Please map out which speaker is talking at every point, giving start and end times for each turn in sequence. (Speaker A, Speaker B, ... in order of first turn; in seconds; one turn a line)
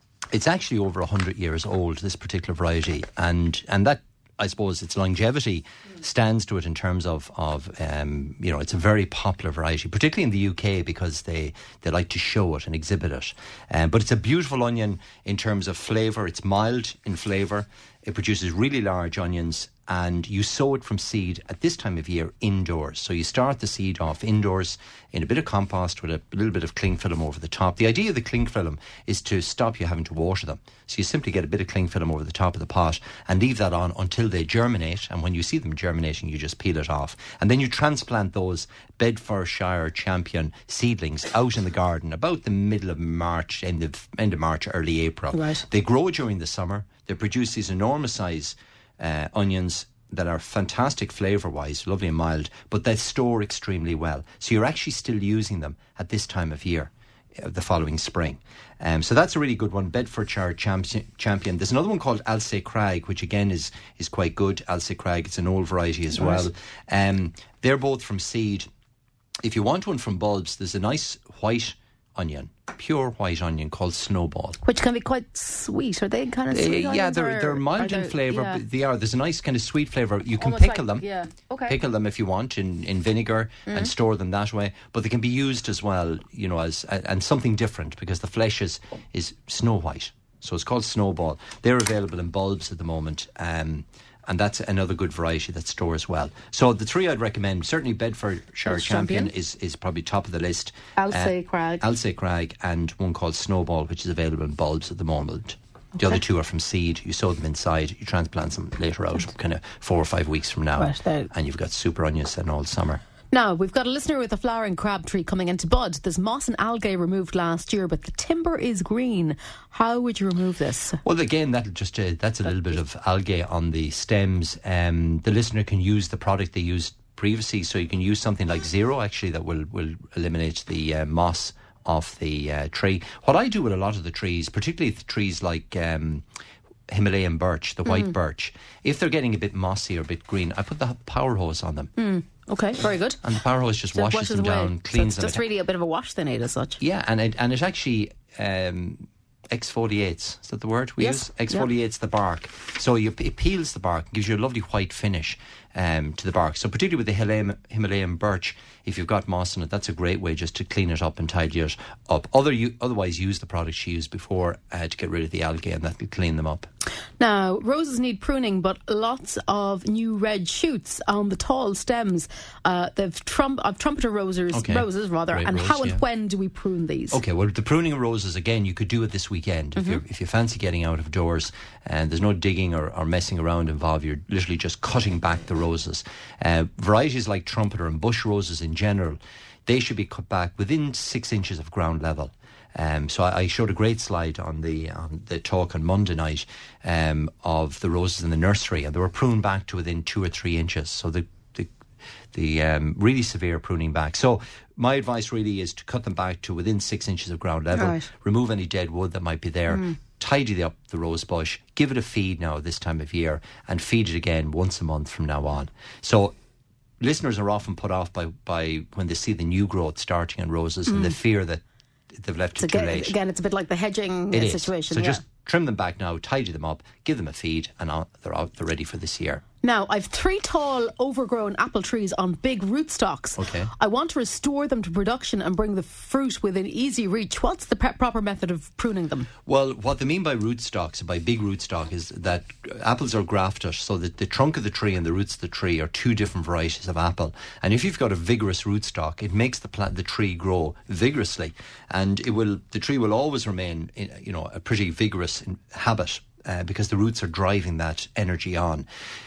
Speaker A: 0.3-68.7
Speaker B: 45.3-45.6
Speaker B: 66.2-66.5
Speaker A: 69.4-74.6
Speaker B: 74.6-78.6
Speaker A: 76.5-81.0
Speaker B: 80.4-81.8
Speaker A: 81.7-113.0
Speaker B: 98.7-99.3
Speaker B: 101.0-101.8
Speaker B: 110.8-111.3
Speaker B: 113.3-121.0
Speaker A: 121.0-136.2
Speaker A: 136.9-141.9
Speaker B: 137.9-138.1
Speaker B: 142.0-143.2
Speaker A: 143.2-145.4
Speaker B: 143.9-146.8
Speaker A: 146.8-166.7
Speaker B: 151.0-151.7
Speaker B: 167.2-177.2
Speaker A: 174.5-176.0
Speaker A: 177.1-201.7
Speaker B: 179.8-180.0
Speaker A: 202.3-216.3
Speaker B: 207.8-208.1
Speaker B: 209.7-210.0
Speaker A: 217.0-221.6
Speaker B: 220.9-221.2
Speaker A: 222.1-223.2
Speaker B: 222.6-225.2
Speaker A: 224.3-229.4
Speaker B: 229.6-239.3
Speaker A: 233.4-233.7
Speaker A: 239.5-258.9